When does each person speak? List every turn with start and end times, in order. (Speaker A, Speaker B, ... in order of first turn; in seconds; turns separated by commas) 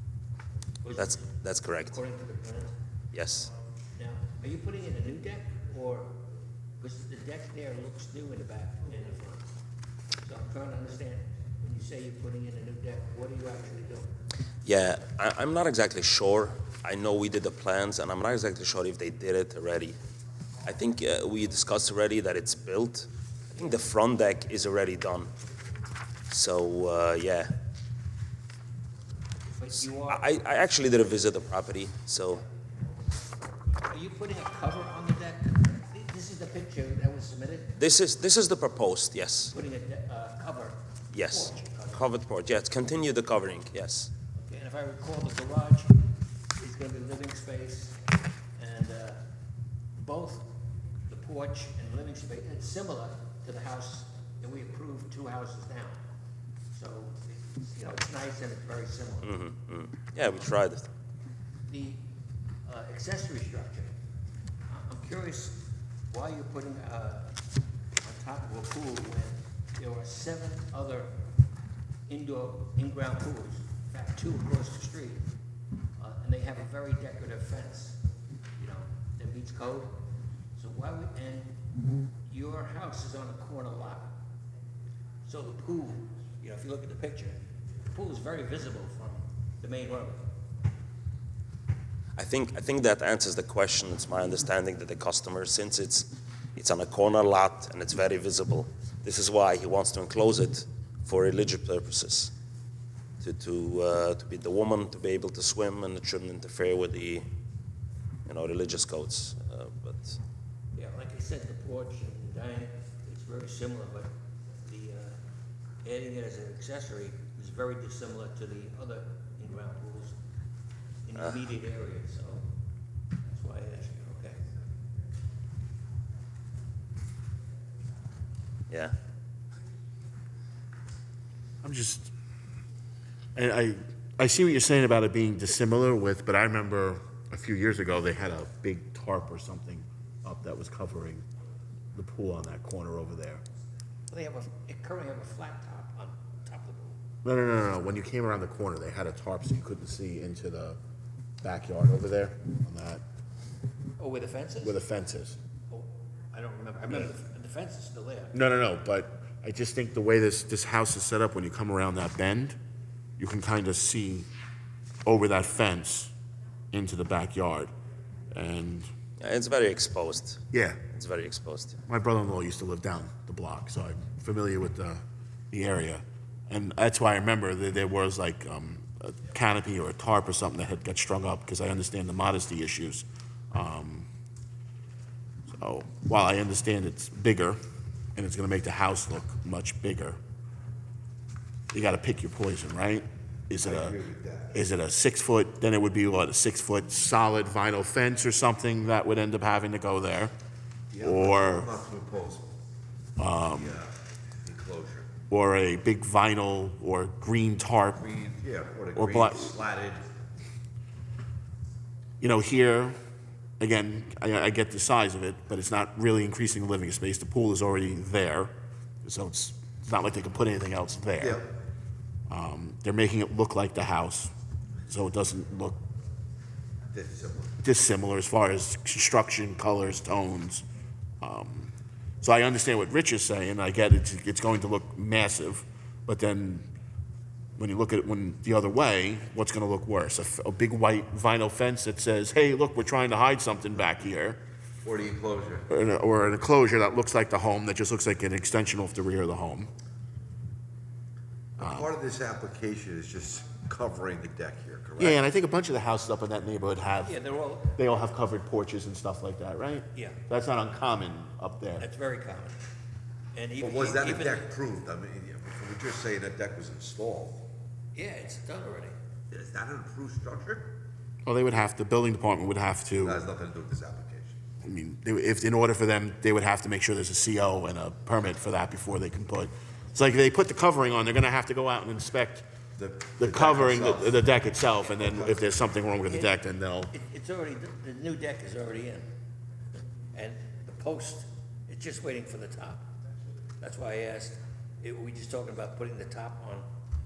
Speaker A: 0.8-2.7, Speaker B: 1.0-1.9, Speaker B: 3.1-3.5, Speaker A: 3.9-6.2, Speaker A: 6.8-9.5, Speaker A: 10.2-14.1, Speaker B: 14.6-20.0, Speaker B: 20.6-25.3, Speaker B: 26.3-27.5, Speaker A: 29.5-30.2, Speaker B: 29.8-32.4, Speaker A: 33.8-37.8, Speaker B: 37.8-39.5, Speaker A: 39.5-42.0, Speaker B: 41.1-44.1, Speaker A: 44.4-46.0, Speaker A: 46.6-48.0, Speaker A: 48.6-49.2, Speaker A: 50.0-50.5, Speaker A: 51.1-56.0, Speaker A: 56.7-59.4, Speaker B: 59.2-60.9, Speaker A: 61.7-62.0, Speaker A: 62.6-63.9, Speaker A: 64.7-67.4, Speaker A: 68.0-71.1, Speaker A: 72.1-75.3, Speaker A: 76.0-78.0, Speaker A: 78.6-80.0, Speaker A: 80.5-81.5, Speaker A: 82.3-84.2, Speaker A: 85.2-87.4, Speaker A: 87.9-90.2, Speaker B: 92.2-102.3, Speaker B: 103.2-107.2, Speaker B: 108.2-110.2, Speaker A: 110.7-114.1, Speaker A: 114.6-115.2, Speaker A: 115.8-120.2, Speaker A: 121.0-122.5, Speaker A: 123.2-124.4, Speaker C: 131.6-132.1, Speaker C: 133.3-141.2, Speaker C: 141.9-143.4, Speaker A: 144.1-147.0, Speaker C: 147.2-150.8, Speaker C: 151.4-153.0, Speaker A: 154.0-154.8, Speaker C: 154.6-155.4, Speaker A: 155.7-158.3, Speaker C: 158.3-162.6, Speaker C: 163.2-164.3, Speaker C: 165.0-166.1, Speaker C: 166.7-167.7, Speaker C: 168.3-168.9, Speaker B: 169.2-171.8, Speaker C: 170.5-170.8, Speaker C: 171.8-184.1, Speaker C: 185.5-187.6, Speaker C: 188.1-190.2, Speaker C: 191.7-193.9, Speaker D: 193.6-194.5, Speaker C: 194.5-200.3, Speaker D: 200.9-202.5, Speaker C: 201.0-201.7, Speaker C: 203.2-203.8, Speaker D: 203.5-203.9, Speaker D: 204.4-205.1, Speaker C: 205.3-208.0, Speaker D: 207.9-210.1, Speaker C: 208.9-209.6, Speaker C: 212.2-212.9, Speaker C: 213.6-218.5, Speaker C: 219.0-221.4, Speaker D: 221.2-221.4, Speaker C: 222.3-224.3, Speaker C: 224.9-225.8, Speaker D: 226.9-227.6, Speaker C: 227.6-230.6, Speaker C: 231.2-236.7, Speaker C: 237.6-244.4, Speaker D: 244.8-245.7, Speaker C: 245.7-249.7, Speaker D: 251.6-255.2, Speaker C: 251.6-251.9, Speaker C: 255.0-257.2, Speaker A: 257.0-257.8, Speaker C: 257.7-261.9, Speaker A: 259.9-260.2, Speaker A: 261.8-262.6, Speaker A: 263.3-264.5, Speaker D: 263.6-267.4, Speaker A: 267.9-268.9, Speaker D: 269.3-270.7, Speaker C: 271.2-273.2, Speaker D: 273.0-274.4, Speaker C: 274.6-282.4, Speaker D: 282.8-284.2, Speaker C: 283.1-286.9, Speaker D: 285.0-285.4, Speaker A: 286.1-286.4, Speaker A: 286.9-289.1, Speaker A: 290.1-292.9, Speaker A: 293.6-296.6